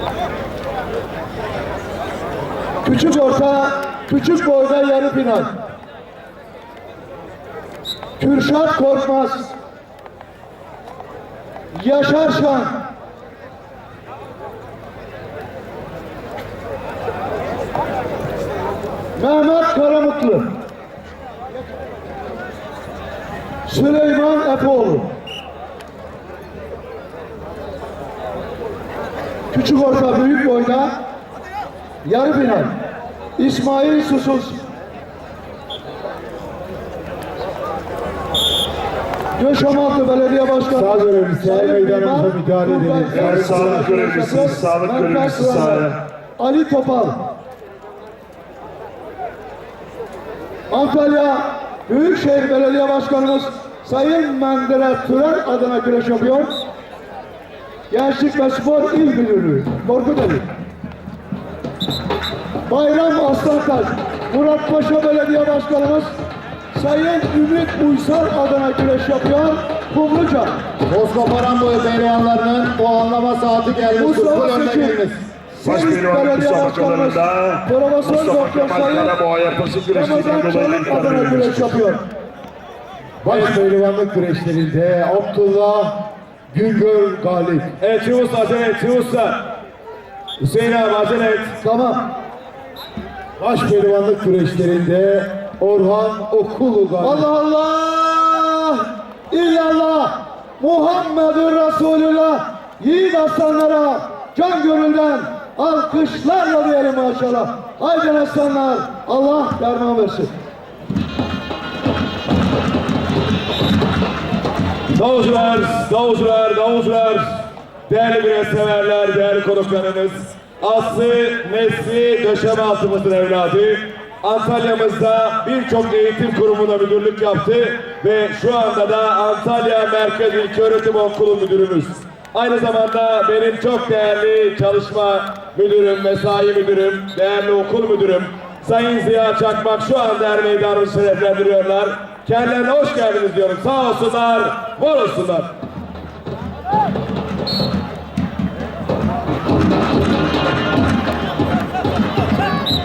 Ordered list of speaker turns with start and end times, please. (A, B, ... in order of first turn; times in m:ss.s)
0:02.8-0:05.5 A
0:08.2-0:09.5 A
0:11.7-0:12.7 A
0:19.2-0:20.5 A
0:23.6-0:25.1 A
0:29.5-0:30.9 A
0:32.0-0:32.7 A
0:33.4-0:34.6 A
0:39.4-0:47.2 A
0:40.7-0:43.9 B
0:43.1-0:46.0 C
0:50.7-0:56.5 A
0:57.9-1:00.4 A
1:02.7-1:06.1 A
1:06.7-1:10.6 A
1:10.9-1:15.2 B
1:13.9-1:15.0 A
1:15.6-1:19.2 A
1:15.6-1:21.7 C
1:19.9-1:22.0 A
1:23.2-1:25.9 B
1:23.3-1:23.6 D
1:26.5-1:27.8 B
1:27.8-1:29.4 D
1:30.4-1:31.5 D
1:31.6-1:32.0 A
1:33.4-1:37.3 B
1:37.0-1:50.3 A
1:54.9-2:25.5 D